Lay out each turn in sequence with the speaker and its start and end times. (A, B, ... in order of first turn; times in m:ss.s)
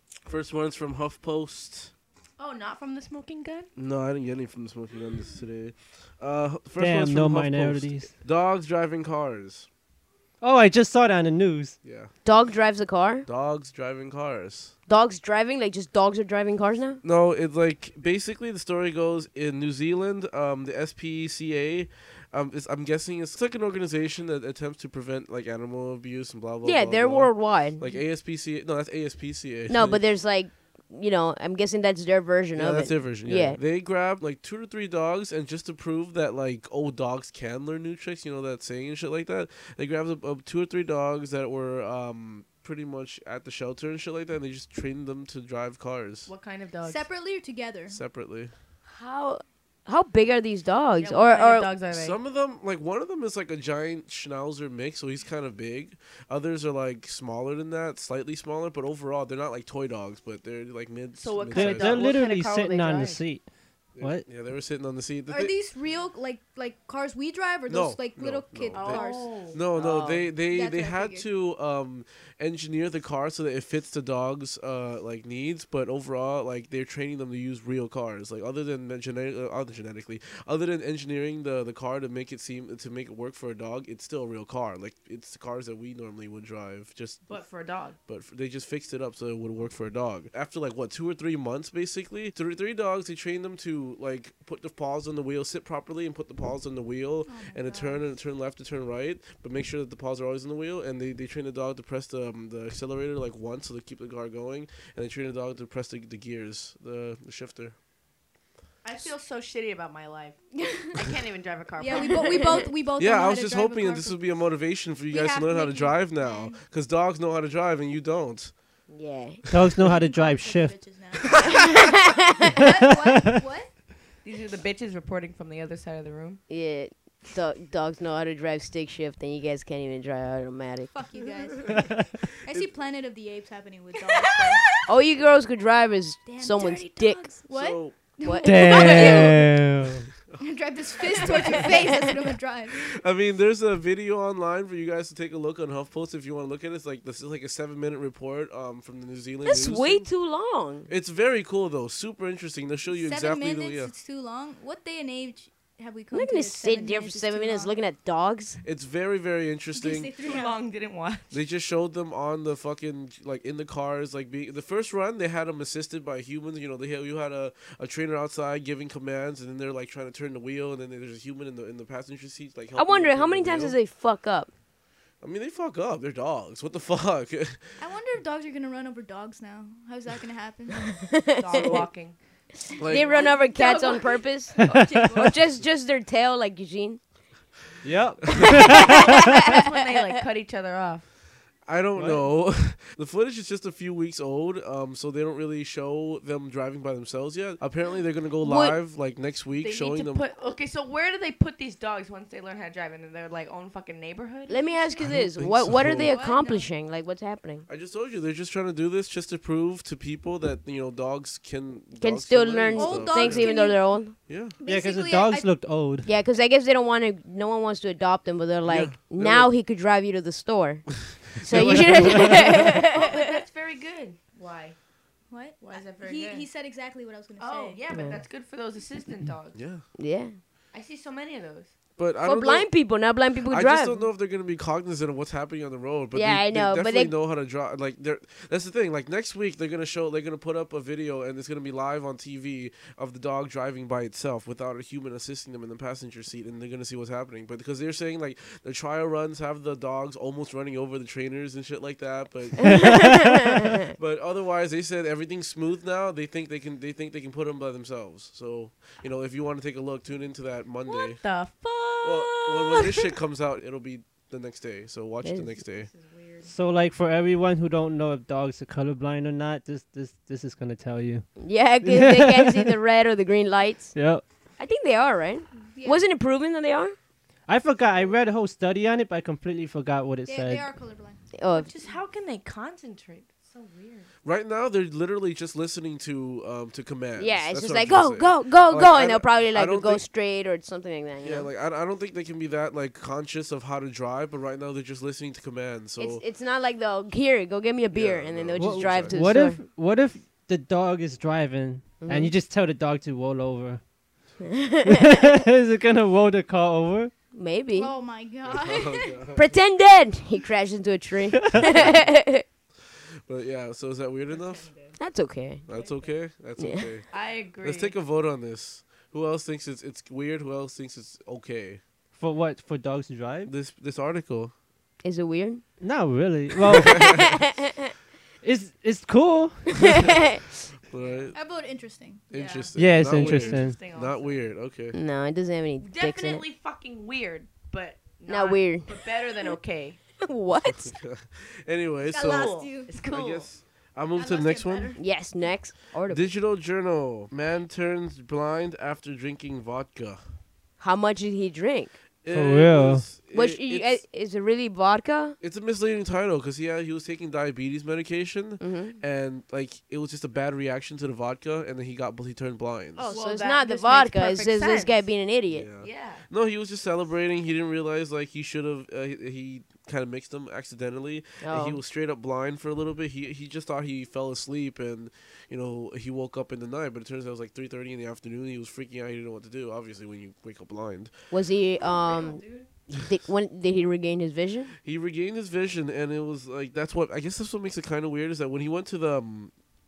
0:00.2-0:01.9 A
0:02.4-0:03.7 B
0:03.8-0:09.7 A
0:06.8-0:08.1 C
0:10.4-0:11.7 C
0:11.8-0:12.1 A
0:12.2-0:13.3 D
0:13.2-0:14.7 A
0:14.9-0:17.0 D
0:17.0-0:30.0 A
0:26.6-0:27.8 D
0:29.7-0:33.6 D
0:32.6-0:46.3 A
0:46.3-0:47.0 B
0:46.8-0:48.0 E
0:47.9-0:48.5 A
0:48.9-0:51.7 D
0:51.0-0:52.2 B
0:51.9-1:02.1 A
1:01.2-1:03.2 B
1:01.5-1:03.4 C
1:03.9-1:05.6 A
1:04.0-1:04.2 C
1:05.3-1:09.3 E
1:07.7-1:27.4 A
1:08.7-1:09.6 B
1:09.7-1:10.3 D
1:10.5-1:11.3 E
1:27.3-1:28.0 B
1:28.0-1:47.7 A
1:37.2-1:38.0 E
1:48.8-1:50.4 B
1:50.9-1:52.6 B
1:51.8-1:54.2 E
1:52.1-1:52.7 D
1:53.0-1:58.5 A
1:55.1-1:56.6 E
1:58.9-1:59.4 D
1:59.5-2:00.8 C
1:59.8-2:01.8 E
2:01.4-2:02.6 D
2:02.5-2:03.7 E
2:02.6-2:03.0 C
2:04.2-2:06.4 B
2:06.5-2:10.9 D
2:10.9-2:14.6 E
2:14.2-2:14.9 B
2:14.8-2:17.2 D
2:16.4-2:19.4 E
2:16.4-2:17.1 B
2:17.5-2:18.0 A
2:18.2-2:19.4 D
2:18.4-2:20.1 C
2:20.4-2:22.8 E
2:21.2-2:22.1 D
2:21.3-2:21.6 A
2:21.3-2:21.6 B
2:22.7-2:30.1 A
2:29.4-2:30.9 D
2:30.9-2:33.9 A
2:32.9-2:37.7 E
2:36.1-2:38.6 D
2:38.6-2:40.1 A
2:39.7-2:40.6 E
2:40.2-2:41.3 B
2:41.3-2:53.8 A
2:52.8-2:54.5 D
2:55.2-2:57.6 A
2:57.8-3:01.0 E
3:01.1-3:01.8 D
3:01.4-3:02.2 B
3:01.6-3:01.8 A
3:02.8-3:03.2 A
3:02.8-3:07.0 D
3:02.9-3:04.0 B
3:03.1-3:04.2 E
3:04.6-3:05.1 C
3:04.6-3:05.3 B
3:07.8-3:09.0 C
3:08.4-3:10.1 D
3:08.6-3:11.0 B
3:11.6-3:20.2 A
3:12.0-3:12.2 C
3:18.4-3:18.8 D
3:19.6-3:25.1 B
3:24.5-3:27.6 D
3:25.0-3:26.1 A
3:25.7-3:26.7 B
3:27.7-3:33.5 A
3:32.0-3:34.1 D
3:32.7-3:33.9 E
3:34.3-3:34.5 A
3:34.6-3:35.5 E
3:34.6-3:36.1 C
3:36.0-3:43.4 D
3:38.7-3:39.5 A
3:41.2-3:42.7 A
3:42.2-3:44.8 B
3:45.3-3:47.8 E
3:45.6-3:46.5 B
3:47.4-3:49.6 B
3:47.9-3:48.2 D
3:49.5-3:49.8 A
3:50.0-3:50.3 D
3:50.7-3:51.7 B
3:52.0-3:52.7 A
3:52.2-3:54.0 D
3:53.5-4:21.2 A
3:56.1-3:57.1 D
4:12.7-4:13.8 D
4:12.7-4:13.3 C
4:20.8-4:23.1 B
4:22.0-4:25.9 A
4:25.2-4:25.5 D
4:25.8-4:26.5 B
4:26.4-4:31.3 C
4:31.4-4:33.9 D
4:31.8-4:32.7 C
4:33.9-4:34.2 C
4:34.6-4:37.0 D
4:35.7-4:36.0 E
4:37.5-4:40.6 C
4:40.3-4:41.2 E
4:41.4-4:41.7 D
4:41.5-4:44.1 B
4:44.2-4:50.0 A
4:47.2-4:51.5 D
4:51.2-4:56.2 A
4:56.0-4:59.6 D
4:57.9-4:59.3 A
4:58.6-5:03.8 C
5:02.0-5:02.3 D
5:04.4-5:05.3 D
5:04.8-5:07.1 C
5:07.3-5:07.9 D
5:07.7-5:09.1 E
5:08.4-5:09.5 A
5:09.3-5:12.4 D
5:11.7-5:12.1 A
5:13.3-5:14.7 A
5:14.3-5:15.0 B
5:15.0-5:15.6 D
5:15.7-5:21.8 A
5:15.7-5:16.1 B
5:16.6-5:16.9 D
5:17.1-5:18.0 B
5:22.2-5:23.5 C
5:23.5-5:24.5 A
5:25.0-5:25.6 D
5:25.8-5:27.0 C
5:26.8-5:27.9 D
5:26.9-5:27.2 A
5:28.4-5:30.0 C
5:29.8-5:30.4 D
5:30.9-5:31.4 A
5:31.0-5:31.3 B
5:31.3-5:32.3 E
5:32.3-5:35.0 A
5:32.3-5:34.4 B
5:32.8-5:33.8 C
5:34.9-5:36.4 D
5:35.8-5:40.0 B
5:38.3-5:38.9 D
5:40.2-5:40.9 D
5:40.7-5:45.0 A
5:42.0-5:42.9 E
5:42.1-5:43.5 B
5:44.2-5:45.0 E
5:45.0-5:46.3 D
5:46.1-5:50.2 A
5:50.8-5:51.9 D
5:52.2-5:54.0 A
5:52.3-5:53.0 C
5:53.3-5:55.4 D
5:55.4-6:03.1 A
5:58.6-5:59.0 D
6:03.0-6:05.7 D
6:03.0-6:05.0 B
6:05.5-6:21.1 A
6:05.8-6:06.2 B
6:11.4-6:11.8 D
6:21.3-6:24.7 D
6:21.8-6:22.7 B
6:24.8-6:29.5 A